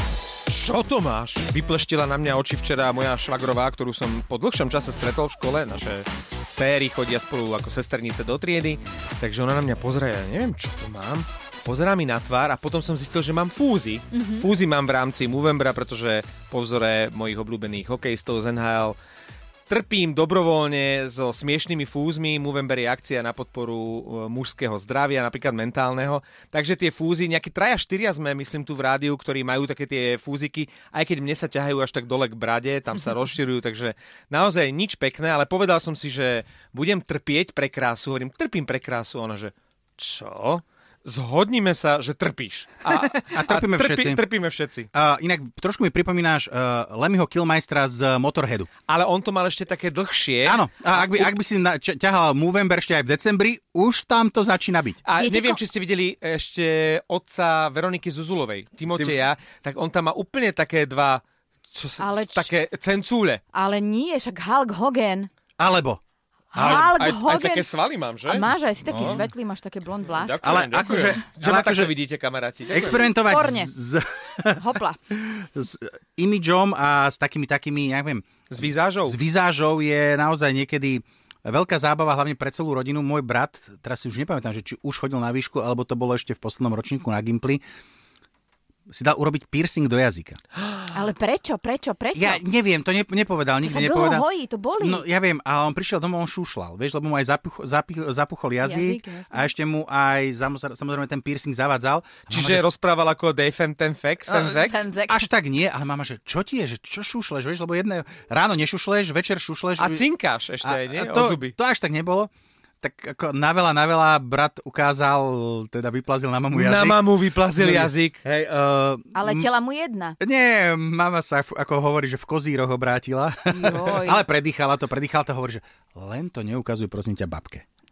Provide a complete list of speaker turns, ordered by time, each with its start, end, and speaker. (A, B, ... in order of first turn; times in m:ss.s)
0:00.5-0:19.0 A
0:14.1-0:14.5 B
0:19.7-0:44.9 A
0:43.3-0:44.2 C
0:44.9-0:48.7 C
0:48.9-0:51.3 A
0:50.4-0:55.0 C
0:55.1-1:03.4 A
0:55.2-0:55.6 B
1:02.0-1:02.5 B
1:03.5-1:05.3 B
1:05.6-1:06.0 C
1:06.5-1:07.7 B
1:06.6-1:06.9 C
1:06.6-1:09.2 A
1:08.3-1:10.6 B
1:08.9-1:09.2 C
1:10.1-1:13.0 A
1:10.4-1:11.9 C
1:12.7-1:27.6 C
1:12.9-1:13.7 B
1:14.6-1:15.0 B
1:18.5-1:19.2 A
1:28.9-1:30.4 C
1:30.9-1:32.4 B
1:32.2-1:34.3 C
1:33.6-1:35.0 B
1:34.8-1:42.6 C
1:38.6-1:39.5 B
1:42.3-1:44.8 A
1:44.3-1:50.1 C
1:44.4-1:45.3 B
1:49.8-1:51.5 A
1:50.6-1:52.3 C
1:52.8-1:57.0 C
1:56.5-1:58.2 A
1:57.6-1:59.5 C
1:59.1-2:00.2 B
2:00.2-2:07.6 C
2:03.5-2:04.2 B